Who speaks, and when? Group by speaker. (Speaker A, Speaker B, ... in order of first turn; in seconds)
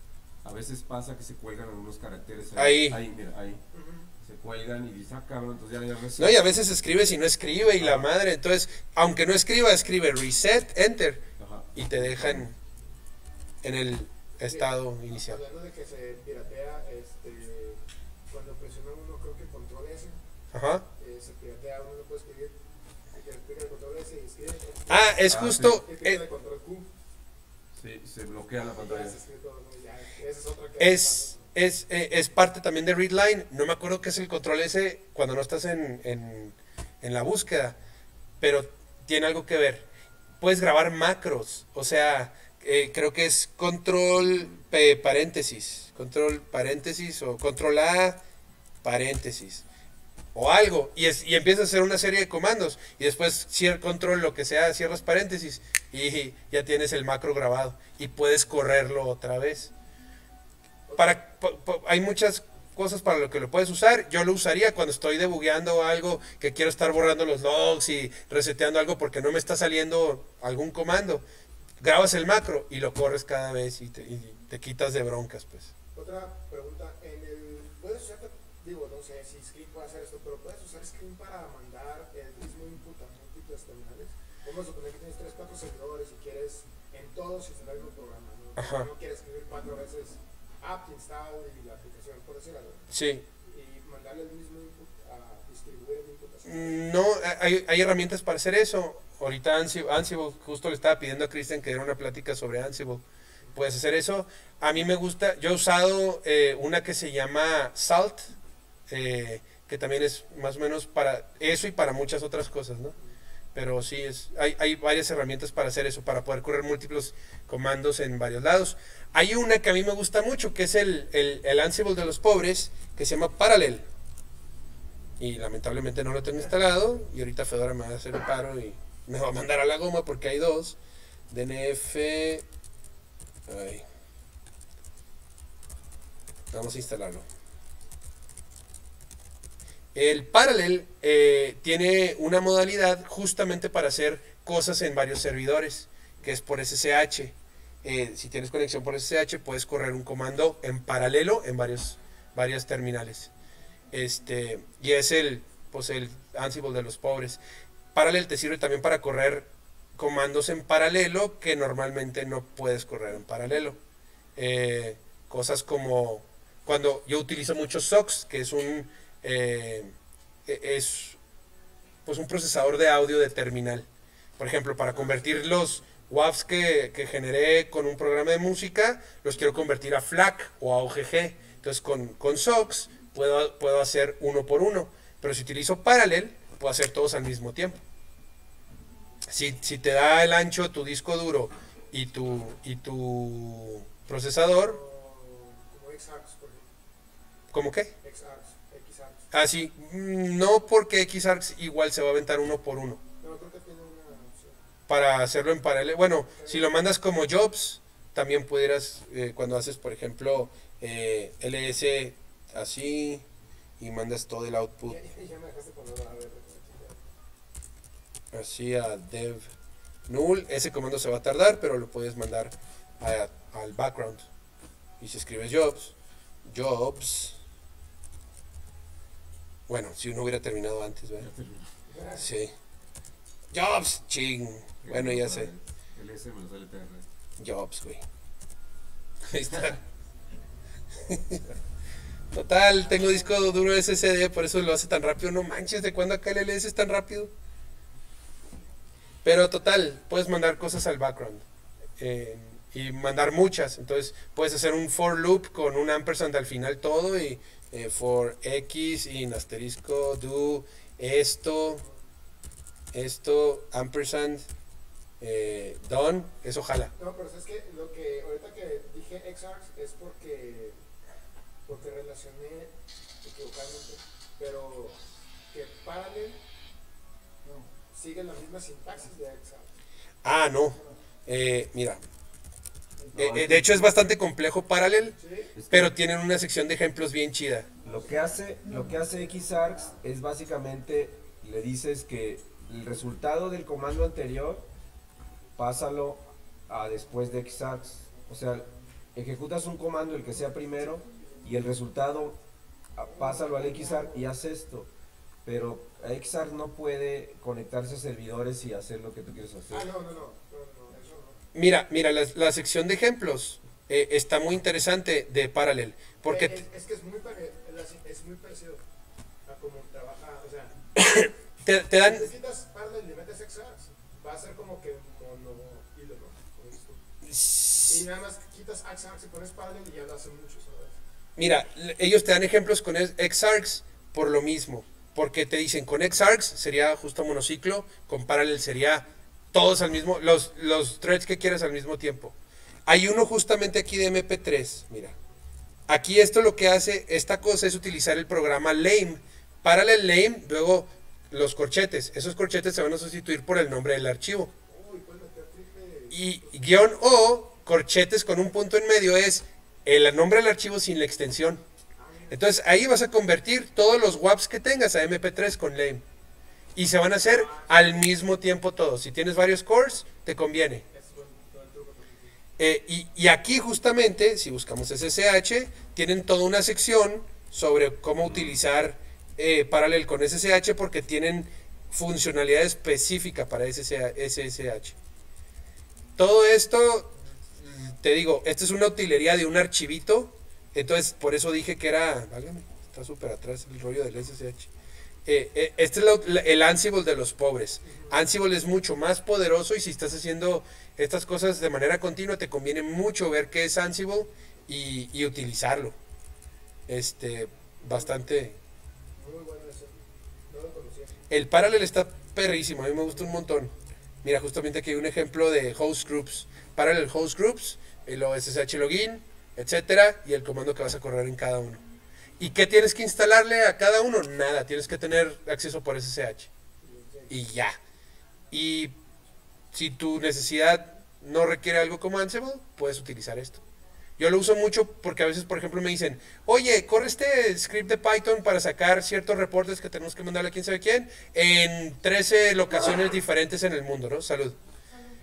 Speaker A: 0.4-3.6, 4.2-6.7, 7.8-8.1, 11.4-12.5, 25.3-25.8, 27.8-29.2, 231.2-231.7, 234.8-237.1, 283.1-283.9, 285.6-285.9, 287.8-294.7, 295.6-302.4, 302.9-304.9, 305.4-309.9
Speaker B: 2.6-3.0, 6.2-12.6, 13.6-15.4, 20.5-20.9, 24.9-26.2, 30.8-37.8, 38.4-39.9, 40.4-48.2, 48.8-49.6, 50.4-59.7, 61.0-71.2, 71.8-75.7, 88.6-88.9, 92.9-93.3, 96.5-103.0, 103.5-108.3, 108.9-113.0, 113.5-123.8, 125.2-130.8, 131.3-132.4, 133.5-133.8, 136.5-137.2, 139.9-153.3, 153.9-157.4, 157.9-163.8, 164.4-169.9, 170.5-171.2, 172.1-173.9, 174.4-187.8, 189.3-194.8, 197.5-197.9, 199.3-203.0, 204.9-213.2, 213.8-215.0, 218.3-219.5, 220.1-224.3, 225.0-227.4, 229.7-231.3, 232.1-232.5, 233.5-235.5, 237.4-238.0, 239.3-239.8, 241.0-241.4, 242.3-247.3, 249.2-251.4, 252.0-261.8, 262.9-264.4, 265.2-266.9, 280.2-282.0, 283.1-285.2, 285.7-287.7, 311.5-316.6, 321.0-322.3, 327.2-328.0, 331.4-342.4, 342.9-345.1, 345.9-354.5, 356.1-361.6, 362.3-366.0, 366.8-370.9, 372.6-385.0, 386.2-394.7, 395.3-405.9, 406.9-408.6, 411.3-413.7, 414.2-421.8, 422.4-426.5, 427.3-427.8, 428.5-428.9, 429.7-433.6, 434.2-444.6
Speaker C: 3.7-4.1, 14.5-20.2, 21.0-22.6, 23.1-26.9, 28.8-31.4, 60.9-61.1, 76.0-92.9, 93.4-96.8, 194.6-196.7, 198.0-199.3, 203.2-204.6, 206.3-206.7, 214.8-217.1, 231.9-232.2, 267.0-270.8, 271.7-276.4, 277.4-279.8, 285.2-285.5, 303.2-304.2, 309.7-311.4, 316.3-318.8, 319.5-320.8, 322.0-327.0, 327.9-331.0, 354.7-356.8, 362.0-362.5, 367.2-368.1, 370.9-372.4, 397.9-398.1, 407.9-408.1, 409.2-411.2, 426.8-427.4